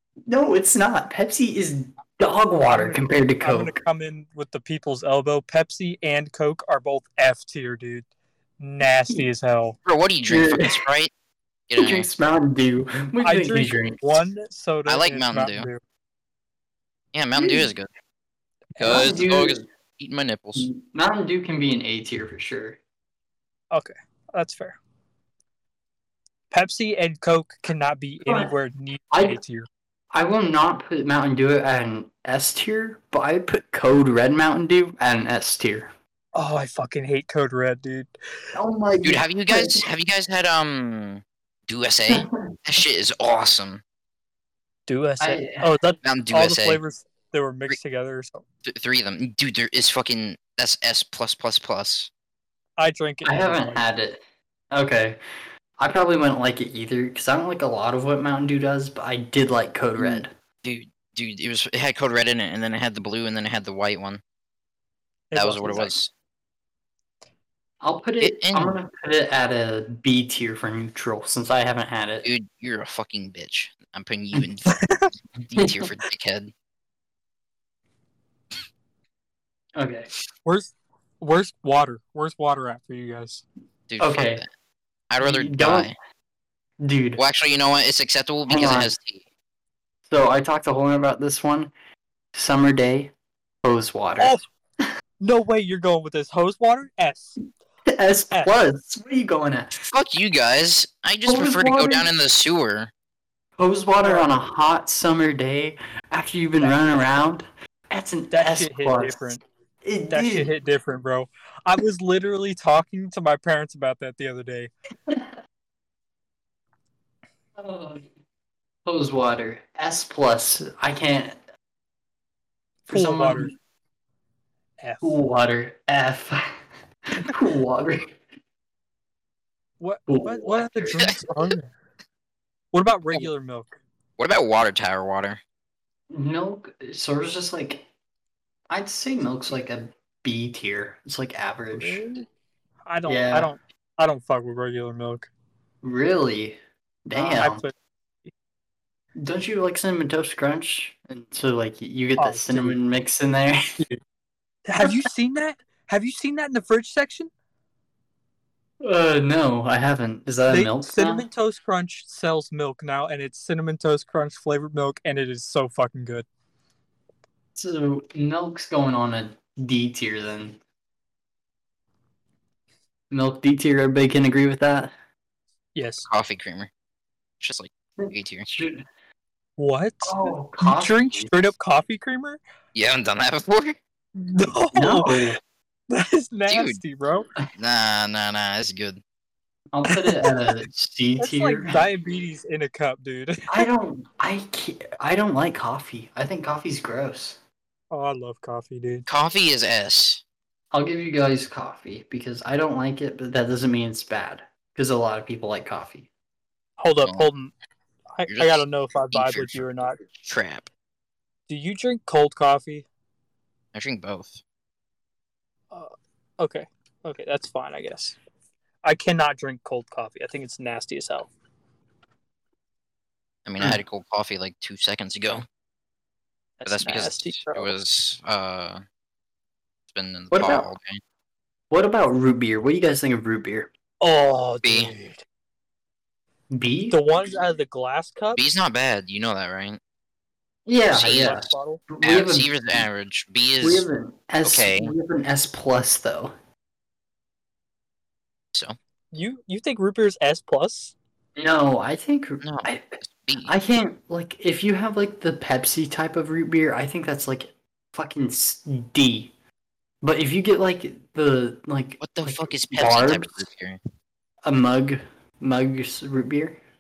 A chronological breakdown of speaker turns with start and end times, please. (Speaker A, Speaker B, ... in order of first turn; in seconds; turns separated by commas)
Speaker A: 0.3-3.8, Speaker B: 2.6-8.1, Speaker B: 8.6-9.8, Speaker C: 9.9-11.1, Speaker A: 10.3-10.8, Speaker C: 11.7-12.1, Speaker A: 11.8-14.2, Speaker B: 13.2-15.8, Speaker C: 14.9-15.7, Speaker C: 17.1-17.9, Speaker A: 17.3-17.7, Speaker B: 18.8-19.1, Speaker C: 18.8-20.7, Speaker A: 18.8-19.6, Speaker A: 20.6-22.8, Speaker B: 23.7-24.8, Speaker B: 26.5-29.7, Speaker A: 28.2-28.5, Speaker A: 29.1-29.4, Speaker A: 30.1-35.9, Speaker B: 36.3-38.1, Speaker A: 38.5-39.9, Speaker C: 39.0-43.8, Speaker A: 42.1-42.5, Speaker B: 44.9-48.4, Speaker A: 45.2-45.7, Speaker C: 46.0-46.8, Speaker C: 48.6-52.1, Speaker B: 52.8-53.8, Speaker A: 53.2-54.2, Speaker A: 54.7-55.2, Speaker A: 55.8-60.3, Speaker C: 60.0-64.2, Speaker B: 65.3-65.9, Speaker C: 65.3-66.1, Speaker A: 67.8-72.3, Speaker C: 68.2-68.8, Speaker C: 72.2-74.8, Speaker B: 74.7-75.1, Speaker C: 75.4-76.5, Speaker A: 75.5-75.9, Speaker A: 79.8-80.1, Speaker B: 80.5-83.4, Speaker C: 83.9-84.5, Speaker A: 84.0-84.4, Speaker C: 85.1-86.0, Speaker A: 85.2-85.9, Speaker A: 86.8-87.2, Speaker C: 87.2-89.2, Speaker A: 88.5-88.9, Speaker A: 90.1-91.7, Speaker A: 92.3-93.1, Speaker A: 93.6-94.4, Speaker B: 95.2-97.4, Speaker A: 97.9-99.7, Speaker C: 99.7-102.9, Speaker A: 101.2-102.0, Speaker A: 103.6-110.5, Speaker B: 104.0-104.4, Speaker B: 106.6-107.0, Speaker B: 108.3-109.4, Speaker B: 110.1-114.7, Speaker A: 117.6-118.0, Speaker A: 118.9-121.4, Speaker A: 122.9-123.5, Speaker B: 122.9-123.5, Speaker B: 124.8-125.2, Speaker A: 125.0-126.5, Speaker A: 127.1-128.2, Speaker B: 129.8-131.7, Speaker A: 130.1-131.1, Speaker B: 132.7-133.8, Speaker C: 134.2-135.4, Speaker A: 136.1-137.8, Speaker A: 138.7-142.0, Speaker B: 141.8-142.2, Speaker B: 142.9-145.3, Speaker A: 143.0-143.5, Speaker A: 145.8-147.7, Speaker B: 147.1-147.7, Speaker A: 149.2-153.8, Speaker B: 152.2-152.8, Speaker B: 154.7-157.3, Speaker A: 154.8-155.1, Speaker A: 158.8-161.2, Speaker B: 160.5-166.2, Speaker A: 167.5-170.6, Speaker A: 173.1-174.9, Speaker B: 175.8-176.1, Speaker C: 176.0-176.7, Speaker C: 177.4-178.5, Speaker A: 178.0-178.8, Speaker B: 179.6-182.4, Speaker A: 180.0-181.3, Speaker C: 182.7-183.8, Speaker B: 184.1-185.3, Speaker A: 184.7-185.4, Speaker B: 185.9-187.3, Speaker C: 186.5-186.8, Speaker C: 187.5-189.0, Speaker A: 189.7-191.8, Speaker B: 189.8-190.3, Speaker B: 191.2-193.7, Speaker A: 193.5-197.4, Speaker B: 197.9-199.1, Speaker C: 199.1-200.2, Speaker A: 200.7-206.1, Speaker B: 206.8-207.5, Speaker C: 207.0-207.3, Speaker B: 208.2-210.0, Speaker C: 208.2-209.6, Speaker C: 210.2-210.7, Speaker B: 211.5-212.9, Speaker C: 213.7-214.4, Speaker B: 215.7-218.2, Speaker B: 218.8-221.3, Speaker C: 223.5-225.5, Speaker B: 226.6-227.7, Speaker C: 226.6-228.8, Speaker C: 229.9-231.0, Speaker A: 230.3-230.7, Speaker A: 231.7-233.7, Speaker B: 234.0-235.2, Speaker C: 234.6-234.9, Speaker A: 236.5-237.0, Speaker B: 236.9-238.4, Speaker C: 238.3-239.8, Speaker A: 240.7-242.8, Speaker C: 240.9-241.5, Speaker B: 241.0-241.8, Speaker C: 242.0-243.9, Speaker A: 243.6-246.3, Speaker C: 244.4-244.9, Speaker B: 249.1-250.9, Speaker A: 251.4-259.3, Speaker C: 252.4-253.5, Speaker A: 260.0-263.5, Speaker C: 262.0-263.8, Speaker A: 264.4-266.6